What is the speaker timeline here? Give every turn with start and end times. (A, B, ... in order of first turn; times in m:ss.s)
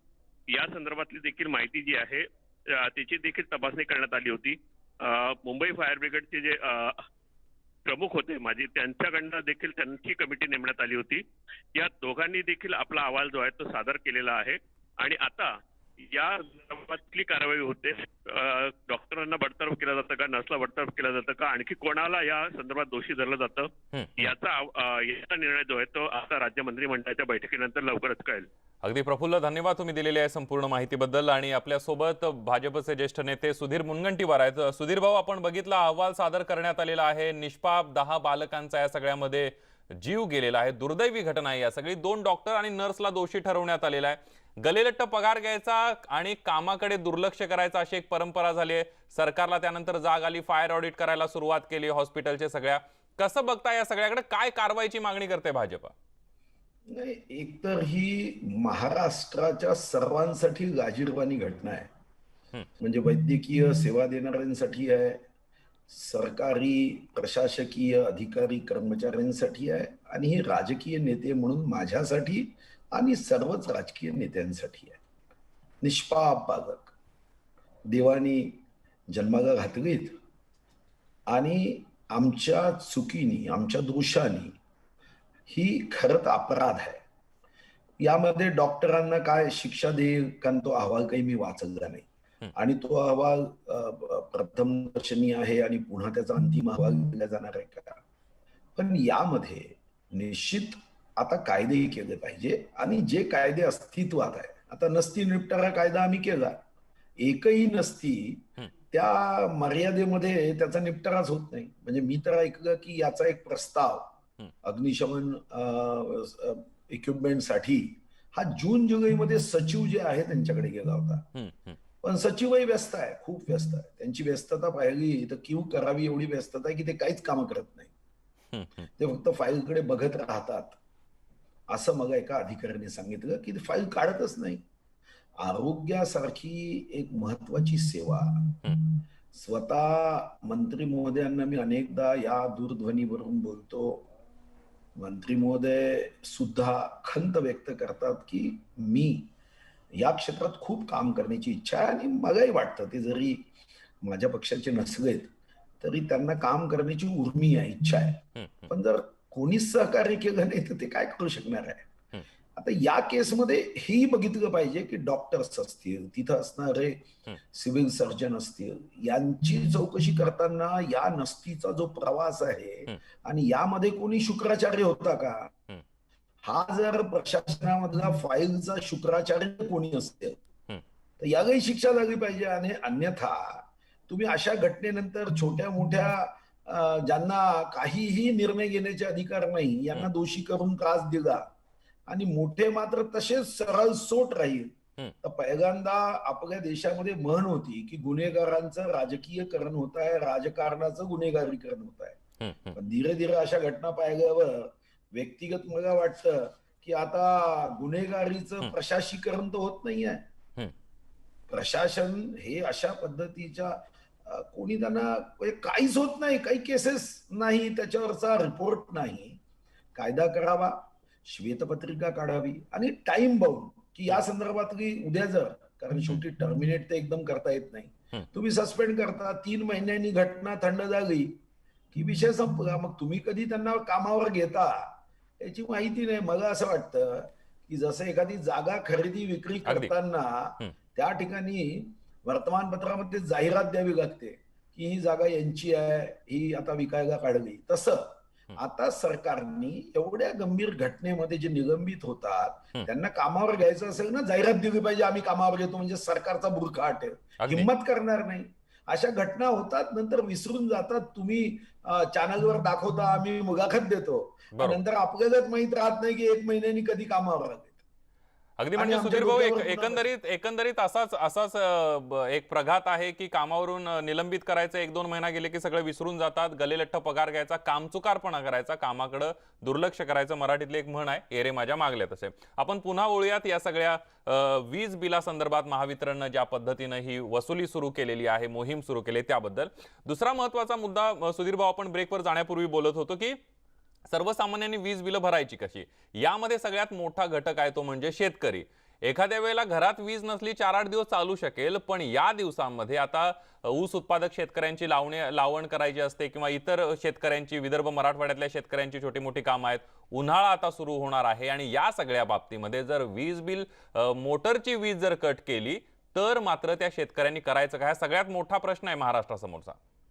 0:00.5-0:07.0 A
0:07.8-0:28.5 A
0:23.9-0:24.3 B
0:28.8-0:55.9 B
0:56.9-1:01.9 C
1:02.8-1:05.2 C
1:05.9-1:15.0 C
1:15.8-1:16.9 C
1:17.9-1:20.2 C
1:21.3-1:24.6 C
1:25.5-1:27.0 C
1:28.0-1:38.0 C
1:38.8-1:46.6 C
1:47.2-2:01.3 C
2:01.3-2:01.8 B
2:02.0-2:07.9 C
2:08.5-2:08.9 B
2:09.0-2:10.8 C
2:11.7-2:14.6 C
2:15.4-2:18.6 C
2:19.3-2:24.1 C
2:25.0-2:29.3 C
2:30.0-2:33.5 C
2:34.0-2:41.9 C
2:38.4-2:38.7 B
2:42.5-2:55.5 C
2:56.4-3:00.4 C
3:01.2-3:11.5 C
3:12.1-3:22.2 C
3:22.4-3:22.8 B
3:22.7-3:30.2 C
3:31.5-3:39.4 C
3:39.9-3:51.4 C
3:51.9-4:27.8 C
3:59.6-3:59.9 B
4:17.4-4:17.7 B
4:28.6-4:53.4 B
4:28.8-4:30.0 C
4:54.1-5:19.8 B